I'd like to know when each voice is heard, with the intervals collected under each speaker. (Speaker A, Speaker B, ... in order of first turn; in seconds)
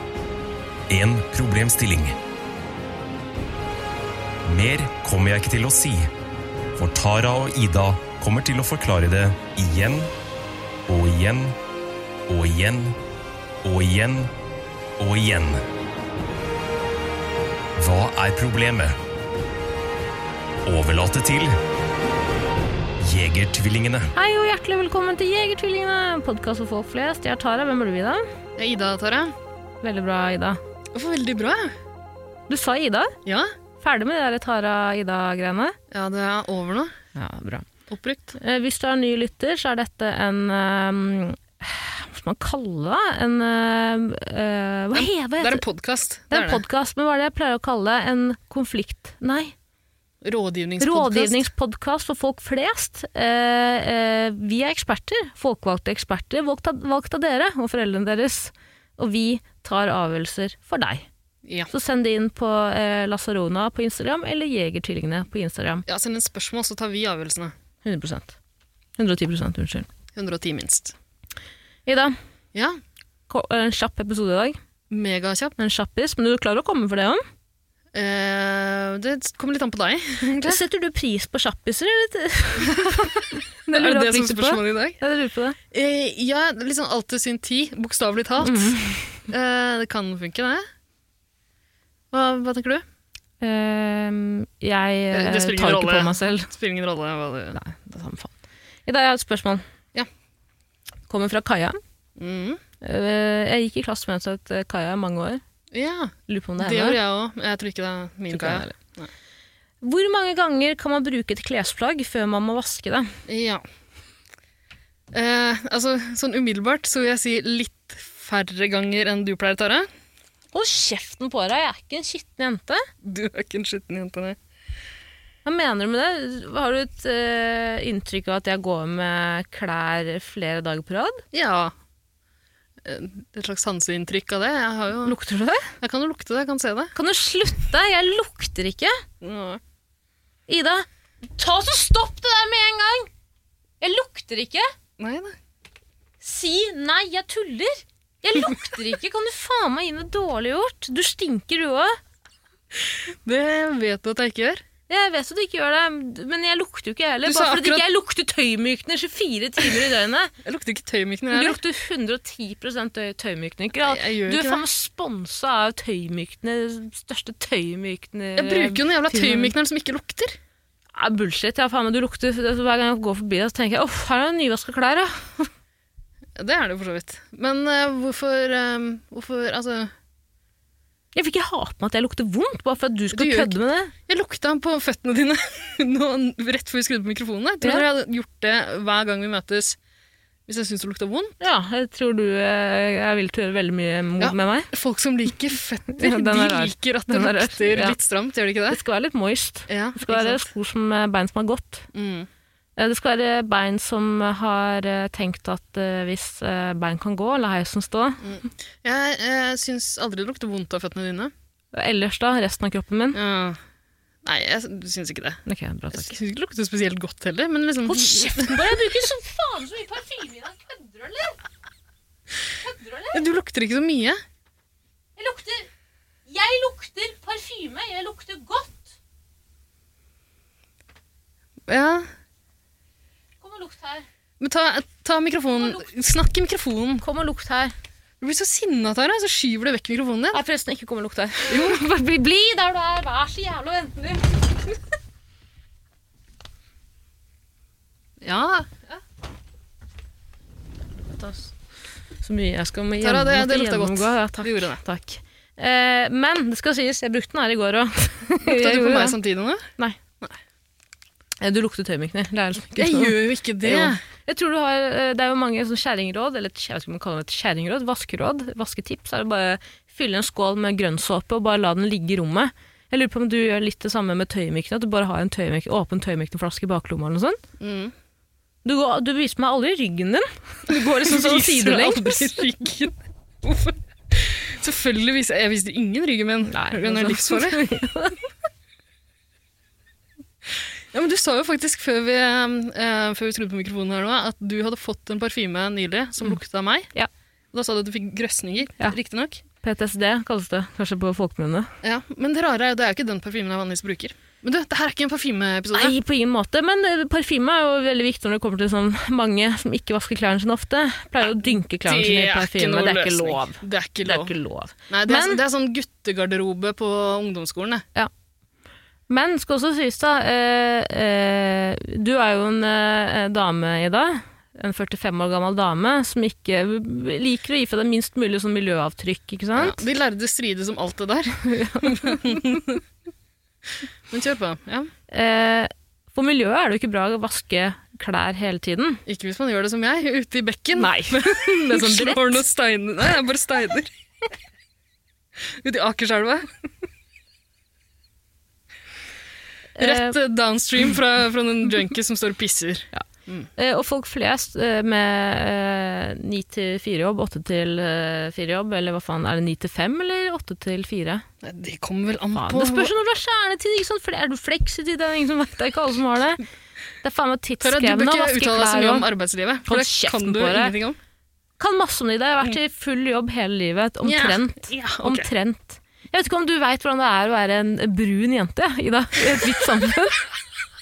Speaker A: 0.9-2.2, 4.4-6.1, 6.8-10.1, 10.9-11.6, 12.3-13.0, 13.6-14.3, 15.0-15.6, 17.8-19.0, 20.6-21.6, 23.0-24.1
Speaker B: 24.1-28.2, 29.8-30.6, 32.5-33.1, 33.8-35.8, 37.1-37.7, 38.4-45.6, 46.3-49.5, 50.8-61.1, 61.7-65.8, 67.8-68.4, 69.0-69.9, 71.9-72.2, 73.3-74.6, 75.6-77.2, 80.2-85.6, 88.4-89.2, 93.4-96.5, 97.5-98.3, 98.9-99.6, 101.1-101.8, 102.8-105.4, 106.3-107.0, 108.3-108.8, 109.8-113.1, 120.5-122.9, 125.4-131.2, 135.0-135.7, 136.9-139.0, 140.5-140.8, 141.4-143.1, 143.8-144.7, 146.2-152.0, 154.9-160.3, 161.3-169.5, 171.0-175.5, 181.1-183.9, 191.4-194.7, 195.9-198.0, 198.7-201.9, 202.8-208.4, 211.7-213.2, 215.5-216.2, 217.8-221.4, 222.6-223.2, 225.2-225.7, 226.3-228.9, 233.4-234.1, 235.5-235.8, 237.0-237.7, 240.3-244.8, 251.2-251.5, 252.2-259.2, 261.4-277.4, 278.6-282.4, 286.4-288.2, 299.6-301.7, 305.7-315.4, 319.1-329.8, 331.4-332.6, 335.1-339.0, 340.8-342.4, 349.8-350.1, 353.6-361.2, 362.3-366.4, 367.0-369.1, 369.7-370.7, 371.6-380.2
Speaker C: 28.6-29.3, 30.9-31.8, 33.2-33.5, 35.9-36.9, 37.9-38.4, 44.9-46.6, 50.2-51.5, 61.5-61.7, 65.9-67.5, 70.1-71.0, 72.5-72.8, 74.9-75.6, 77.9-80.6, 82.7-83.1, 83.7-85.0, 85.7-90.7, 92.1-92.8, 95.1-97.6, 102.2-102.6, 105.7-109.1, 113.3-113.6, 115.1-119.9, 123.0-124.4, 131.3-131.7, 132.8-135.2, 135.8-136.9, 139.2-139.6, 145.0-145.3, 152.7-154.7, 157.2-157.8, 160.4-161.6, 163.8-164.7, 168.4-170.4, 176.3-179.9, 183.1-183.5, 184.1-189.8, 190.5-191.3, 194.2-198.8, 199.7-200.4, 201.9-202.3, 208.2-211.3, 213.1-213.6, 214.2-215.4, 215.9-218.9, 223.1-224.2, 231.7-232.1, 234.4-237.0, 238.2-240.4, 241.5-241.8, 248.2-248.7, 253.0-254.8, 258.4-259.7, 262.8-264.0, 277.6-277.9, 280.7-287.7, 290.9-296.9, 297.5-299.4, 301.8-305.9, 311.8-314.3, 314.9-317.8, 329.6-332.8, 334.1-334.9, 339.1-343.9, 345.4-346.6, 349.8-353.5, 361.4-362.9, 367.6-371.0, 374.0-375.3